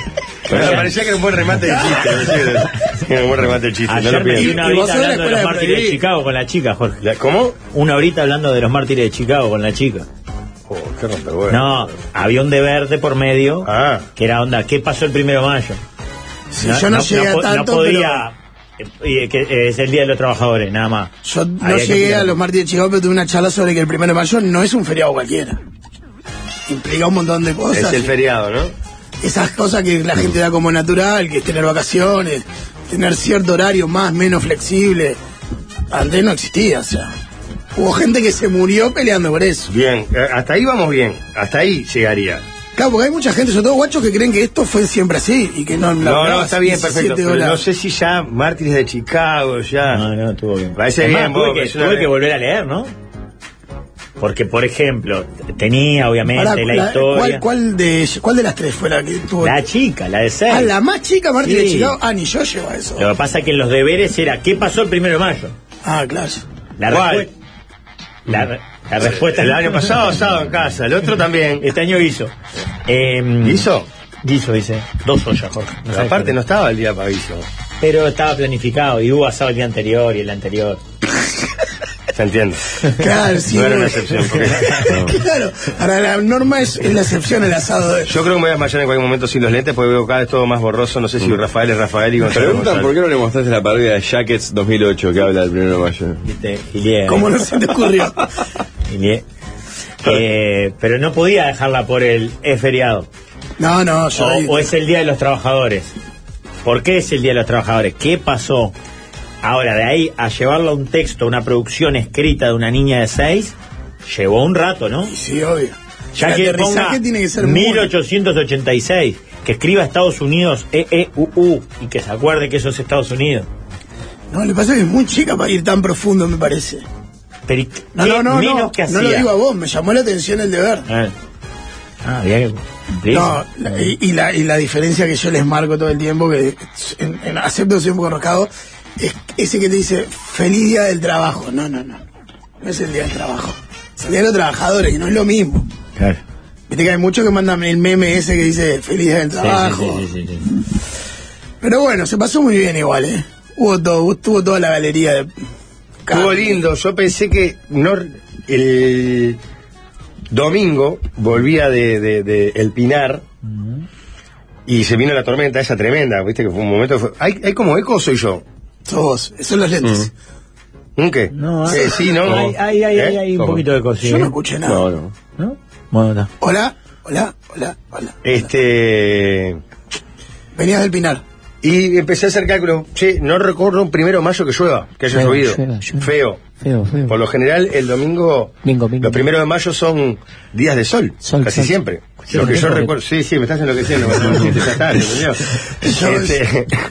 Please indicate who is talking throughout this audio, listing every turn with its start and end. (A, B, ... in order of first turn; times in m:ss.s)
0:00.5-0:04.8 A
0:00.5-0:00.8 B
0:00.6-0:00.8 C
0:01.7-0:02.0 D
0:03.9-0:07.0 C
0:04.3-0:06.0 D
0:07.0-0:07.6 A
0:07.6-0:10.0 C
0:10.7-0:11.6 A
0:11.5-0:15.8 C
0:13.6-0:14.0 A
0:16.5-0:18.2 D
0:16.6-0:22.4 C
0:21.2-0:25.6 D
0:26.7-0:28.1 D
0:27.7-0:28.7 A
0:29.2-0:35.2 D
0:35.9-0:37.1 D
0:37.7-0:39.7 D
0:39.7-0:42.4 A
0:42.8-0:47.6 D
0:46.0-0:50.0 A
0:49.9-0:52.9 C
0:50.7-0:52.1 A
0:54.2-0:57.4 C
0:56.3-0:59.6 D
0:59.4-1:00.7 C
1:00.5-1:03.1 D
1:01.4-1:02.0 C
1:03.0-1:05.5 C
1:05.8-1:06.4 D
1:06.8-1:07.3 C
1:06.9-1:07.3 A
1:08.3-1:09.9 C
1:09.0-1:11.6 A
1:11.6-1:12.3 C
1:12.8-1:13.7 C
1:13.4-1:13.9 A
1:14.2-1:16.3 C
1:15.9-1:17.4 A
1:17.8-1:20.8 C
1:22.1-1:22.6 A
1:23.0-1:28.2 D
1:23.5-1:24.8 A
1:28.1-1:32.9 A
1:32.3-1:36.2 B
1:36.2-1:37.3 C
1:37.1-1:38.3 D
1:38.9-1:39.2 C
1:40.0-1:43.1 C
1:43.6-1:44.7 D
1:44.2-1:45.9 C
1:46.6-1:48.7 C
1:49.4-1:53.5 C
1:54.0-1:55.1 C
1:55.1-1:57.9 D
1:56.2-2:03.5 C
2:04.3-2:06.8 D
2:07.5-2:09.3 C
2:07.9-2:10.8 D
2:10.9-2:11.1 C
2:12.0-2:13.8 C
2:13.1-2:22.0 D
2:22.6-2:25.6 D
2:26.7-2:30.0 D
2:29.4-2:30.4 C
2:31.6-2:35.3 D
2:36.1-2:36.6 D
2:36.1-2:39.4 A
2:40.3-2:43.2 A
2:43.4-2:43.8 C
2:44.7-2:48.4 A
2:48.9-2:50.1 D
2:49.8-2:50.1 B
2:51.0-2:53.2 A
2:51.3-2:54.3 C
2:53.4-2:53.6 B
2:54.0-2:54.8 D
2:54.6-2:55.1 B
2:55.4-2:56.3 C
2:56.4-2:58.2 D
2:58.2-2:59.6 A
3:00.6-3:01.2 D
3:01.6-3:06.4 A
3:05.1-3:07.2 E
3:07.1-3:16.7 A
3:08.6-3:09.3 E
3:11.2-3:11.8 E
3:12.3-3:12.6 C
3:12.3-3:12.9 E
3:15.8-3:16.4 D